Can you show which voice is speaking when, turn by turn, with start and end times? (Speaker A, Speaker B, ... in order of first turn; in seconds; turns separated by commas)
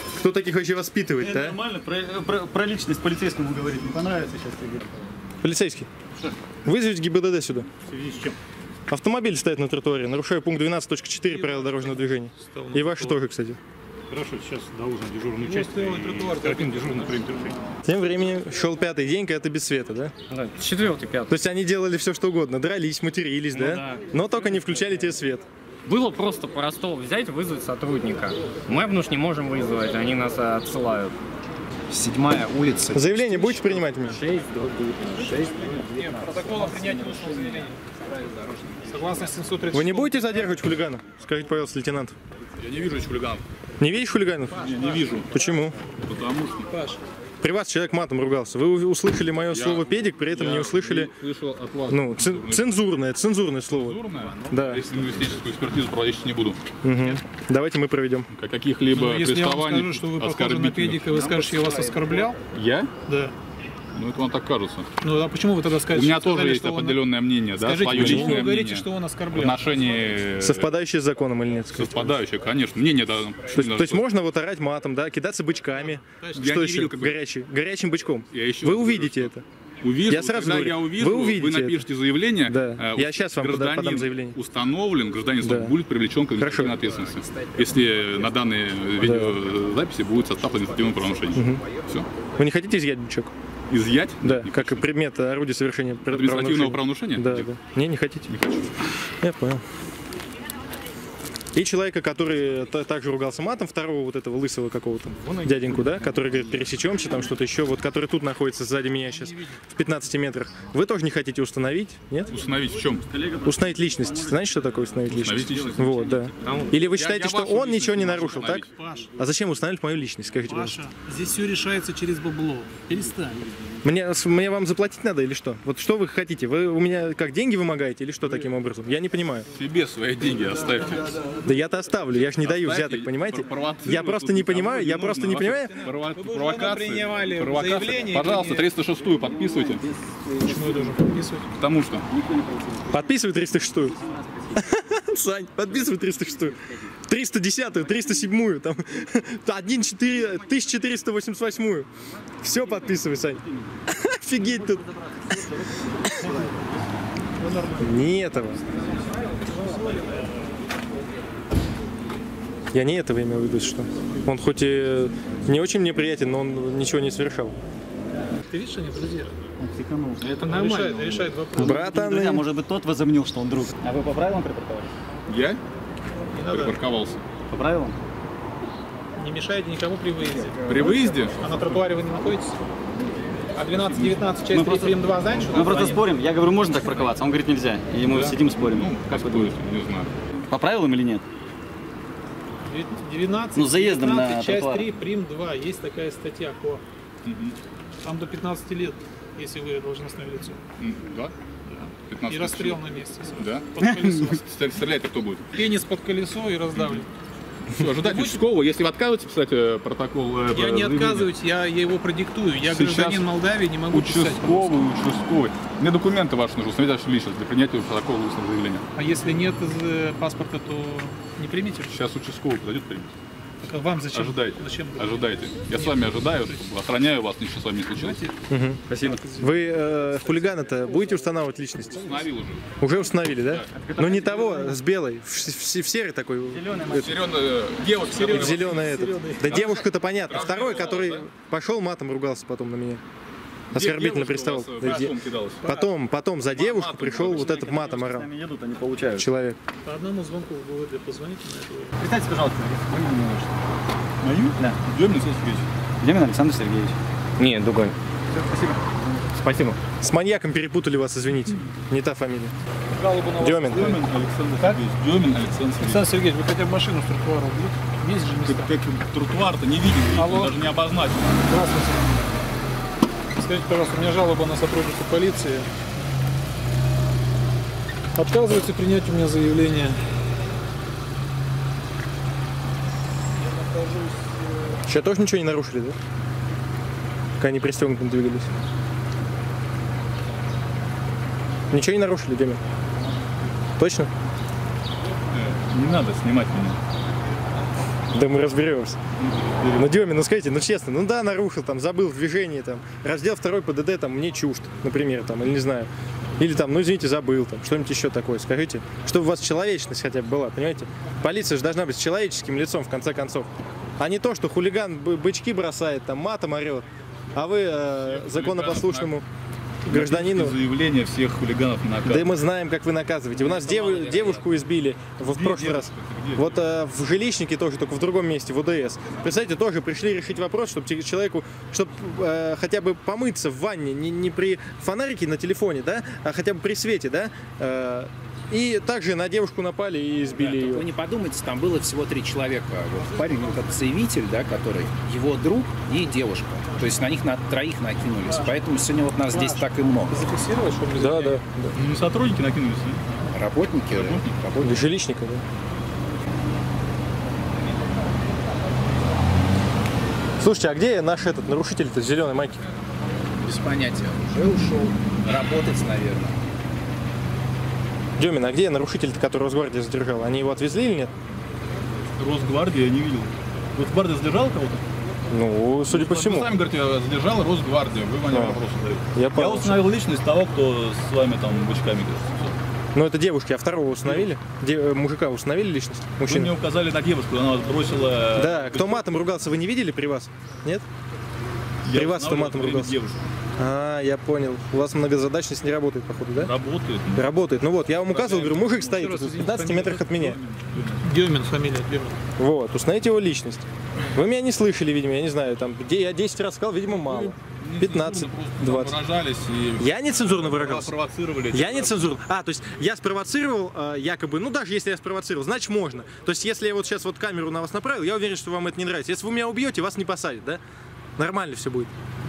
Speaker A: 0.2-1.6, Speaker B: 1.2-4.9, Speaker A: 5.4-5.9, Speaker A: 6.7-7.7, Speaker C: 7.9-8.3, Speaker A: 8.9-13.6, Speaker D: 11.2-13.2, Speaker C: 14.1-17.5, Speaker D: 15.4-17.5, Speaker A: 17.9-20.1, Speaker E: 20.3-21.4, Speaker A: 21.3-25.4, Speaker E: 23.5-24.0, Speaker E: 25.9-31.2, Speaker F: 31.9-33.9, Speaker A: 32.9-34.2, Speaker E: 33.9-36.5, Speaker F: 35.1-36.7, Speaker D: 36.2-37.8, Speaker F: 38.0-39.2, Speaker D: 38.9-40.5, Speaker A: 39.7-42.1, Speaker C: 42.6-43.4, Speaker A: 43.8-44.7, Speaker D: 44.5-45.2, Speaker C: 44.6-45.3, Speaker A: 45.3-45.8, Speaker C: 46.0-46.7, Speaker D: 46.7-47.0, Speaker A: 47.4-51.1, Speaker C: 49.5-52.8, Speaker A: 51.9-54.8, Speaker C: 53.7-56.6, Speaker F: 54.2-55.4, Speaker A: 56.8-58.3, Speaker C: 58.3-62.0, Speaker D: 58.9-62.4, Speaker C: 62.5-62.9, Speaker D: 63.1-63.3, Speaker C: 64.0-64.9, Speaker D: 65.0-70.2, Speaker C: 65.9-70.7, Speaker A: 67.9-68.4, Speaker A: 70.4-72.2, Speaker C: 71.8-74.0, Speaker A: 73.5-79.4, Speaker D: 75.9-76.4, Speaker C: 76.4-77.2, Speaker C: 78.3-92.1, Speaker A: 80.1-81.9, Speaker A: 82.4-84.4, Speaker A: 85.4-85.8, Speaker A: 86.3-86.9, Speaker F: 86.8-89.0, Speaker A: 89.0-89.4, Speaker F: 90.2-92.2, Speaker A: 91.3-91.6, Speaker A: 92.4-93.3, Speaker C: 93.7-94.9, Speaker A: 94.2-98.3, Speaker C: 96.1-97.5, Speaker C: 98.3-98.7, Speaker A: 99.2-99.6, Speaker A: 101.5-112.4, Speaker C: 112.3-113.0, Speaker B: 112.7-116.5, Speaker A: 113.4-120.8, Speaker C: 115.1-115.9, Speaker C: 116.9-118.7, Speaker D: 117.0-119.1, Speaker D: 120.5-123.5, Speaker A: 123.8-129.5, Speaker C: 129.5-131.2, Speaker D: 130.7-131.3, Speaker A: 131.4-135.8, Speaker C: 132.4-139.8, Speaker D: 135.5-138.7, Speaker B: 139.0-141.0, Speaker D: 140.4-141.5, Speaker C: 141.6-142.1, Speaker B: 142.1-144.6, Speaker A: 142.9-144.0, Speaker A: 144.6-151.9, Speaker A: 152.4-154.8, Speaker B: 152.5-153.6, Speaker B: 154.4-156.6, Speaker D: 157.4-158.0, Speaker A: 157.8-158.6, Speaker D: 159.3-160.3, Speaker A: 162.7-167.6, Speaker D: 168.5-169.4, Speaker B: 169.6-174.9, Speaker D: 170.2-172.0, Speaker A: 171.6-172.5, Speaker C: 175.3-175.6, Speaker D: 176.3-176.8, Speaker C: 176.5-177.2, Speaker B: 177.5-178.0, Speaker D: 179.2-182.6, Speaker C: 180.7-181.8, Speaker D: 183.5-186.1, Speaker C: 183.7-184.2, Speaker B: 184.5-189.6, Speaker C: 188.1-190.2, Speaker B: 190.5-191.2, Speaker D: 192.7-196.8, Speaker B: 193.6-194.9, Speaker C: 197.2-197.6, Speaker D: 198.0-200.6, Speaker C: 200.8-201.3, Speaker D: 201.7-204.4, Speaker C: 202.1-203.7, Speaker B: 203.8-204.4, Speaker C: 204.3-205.4, Speaker D: 205.5-207.1, Speaker C: 206.8-207.0, Speaker C: 207.8-211.3, Speaker D: 208.0-208.5, Speaker D: 210.5-214.9, Speaker C: 212.7-213.3, Speaker C: 213.9-218.8, Speaker D: 218.9-221.9, Speaker C: 221.9-223.1, Speaker D: 223.6-226.6, Speaker C: 224.1-228.2, Speaker D: 228.0-228.3, Speaker A: 228.5-228.8, Speaker B: 228.9-229.2, Speaker D: 229.0-229.6, Speaker A: 229.4-232.3, Speaker C: 231.9-232.6, Speaker A: 232.8-237.1, Speaker B: 233.8-234.8, Speaker B: 236.5-237.2, Speaker C: 236.9-241.3, Speaker D: 237.9-239.6, Speaker A: 238.2-243.0, Speaker C: 243.7-245.7, Speaker A: 243.7-248.3, Speaker D: 244.8-245.1, Speaker C: 246.6-247.8, Speaker B: 247.0-249.3, Speaker A: 249.2-249.6, Speaker D: 249.9-252.0, Speaker B: 252.0-253.6, Speaker C: 254.2-255.7, Speaker B: 256.0-257.0, Speaker E: 257.4-257.9, Speaker B: 258.3-259.1, Speaker E: 259.4-259.8, Speaker A: 260.0-262.5, Speaker D: 262.9-264.0, Speaker A: 263.4-263.9, Speaker C: 263.6-266.1, Speaker D: 265.8-268.7, Speaker C: 268.4-271.4, Speaker D: 270.1-270.6, Speaker D: 271.5-272.1, Speaker D: 273.4-275.7, Speaker D: 278.2-280.0, Speaker D: 283.4-284.8, Speaker A: 284.9-286.0, Speaker A: 287.4-288.5, Speaker A: 291.7-292.6, Speaker A: 293.8-294.1, Speaker C: 295.3-296.8, Speaker A: 298.1-299.0, Speaker C: 299.2-299.9, Speaker A: 299.8-319.2, Speaker C: 318.0-319.2, Speaker A: 319.9-320.6, Speaker C: 319.9-322.4, Speaker A: 322.1-340.9, Speaker E: 323.7-324.1, Speaker C: 325.2-326.6, Speaker F: 340.3-350.2, Speaker D: 348.3-348.5, Speaker D: 349.3-351.4, Speaker A: 350.9-351.8, Speaker C: 351.8-353.0, Speaker F: 353.3-354.9, Speaker C: 353.9-354.3, Speaker A: 354.6-355.4, Speaker A: 360.4-362.6, Speaker F: 363.4-366.4, Speaker A: 368.2-371.1, Speaker C: 372.2-374.8, Speaker A: 375.3-376.5, Speaker C: 375.9-382.6, Speaker A: 378.3-378.6, Speaker A: 379.1-379.8, Speaker A: 382.9-386.5, Speaker C: 386.3-389.1, Speaker A: 388.4-390.9, Speaker C: 391.9-393.2, Speaker A: 391.9-393.0, Speaker A: 393.6-396.5, Speaker C: 396.4-397.3, Speaker A: 397.1-400.4, Speaker C: 398.0-401.1, Speaker D: 401.0-402.2, Speaker A: 402.4-409.0, Speaker C: 407.0-412.1, Speaker A: 409.8-410.9, Speaker A: 411.5-420.6, Speaker A: 421.2-421.9